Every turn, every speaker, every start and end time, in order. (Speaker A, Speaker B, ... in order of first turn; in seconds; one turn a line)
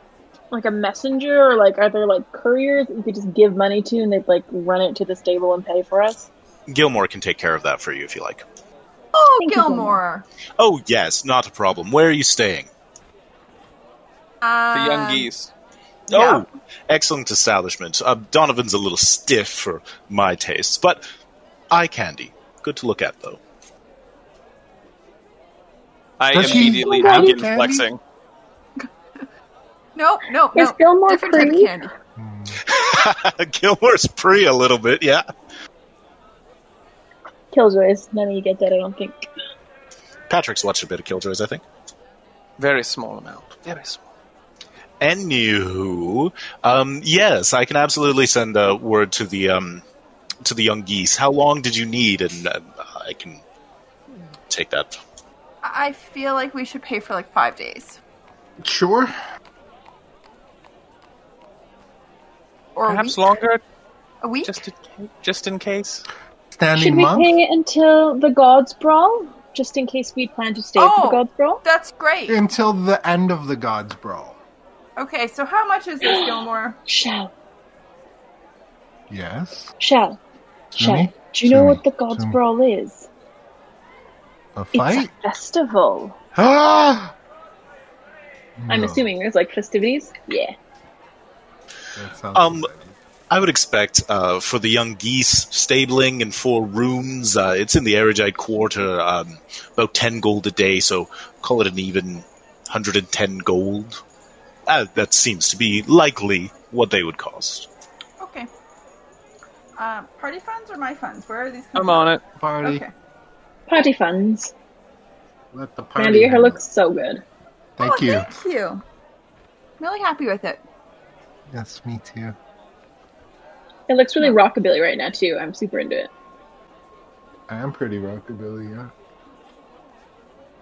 Speaker A: 0.5-6.3
Speaker B: 6.7-8.4
Speaker C: 9.1-10.3
Speaker A: 9.4-10.0
Speaker B: 10.6-12.7
Speaker C: 14.4-15.3
Speaker D: 14.7-15.5
Speaker C: 16.1-16.5
Speaker B: 16.1-21.0
Speaker B: 21.7-23.4
Speaker D: 26.2-28.0
Speaker E: 26.3-27.9
Speaker A: 26.4-27.4
Speaker C: 30.0-31.9
Speaker A: 30.5-31.8
Speaker E: 32.2-32.6
Speaker B: 32.7-35.2
Speaker A: 37.5-39.3
Speaker B: 40.3-41.6
Speaker D: 42.6-44.0
Speaker B: 45.0-49.8
Speaker B: 50.4-53.4
Speaker B: 54.5-55.0
Speaker C: 55.6-58.0
Speaker E: 58.6-59.1
Speaker C: 62.8-63.3
Speaker D: 62.9-63.6
Speaker C: 64.2-64.6
Speaker D: 64.5-66.0
Speaker E: 66.5-67.3
Speaker A: 66.7-71.6
Speaker C: 70.8-72.4
Speaker E: 72.3-74.4
Speaker C: 75.0-76.8
Speaker A: 76.0-77.3
Speaker E: 79.1-79.7
Speaker A: 79.8-80.2
Speaker A: 80.8-83.1
Speaker E: 80.8-82.4
Speaker E: 84.6-85.1
Speaker A: 84.7-86.2
Speaker E: 86.3-87.1
Speaker E: 88.6-89.0
Speaker A: 88.7-90.5
Speaker E: 92.0-92.9
Speaker B: 92.3-92.7
Speaker B: 93.3-104.0
Speaker B: 104.7-107.7
Speaker C: 108.2-108.5
Speaker C: 109.8-112.9
Speaker D: 111.8-112.2
Speaker E: 112.4-112.8
Speaker A: 113.7-114.5
Speaker E: 115.5-116.6
Speaker A: 116.0-117.2
Speaker E: 117.8-118.3
Speaker C: 117.8-118.8
Speaker C: 119.8-120.6
Speaker E: 121.5-122.4
Speaker A: 123.9-126.1
Speaker E: 127.5-128.9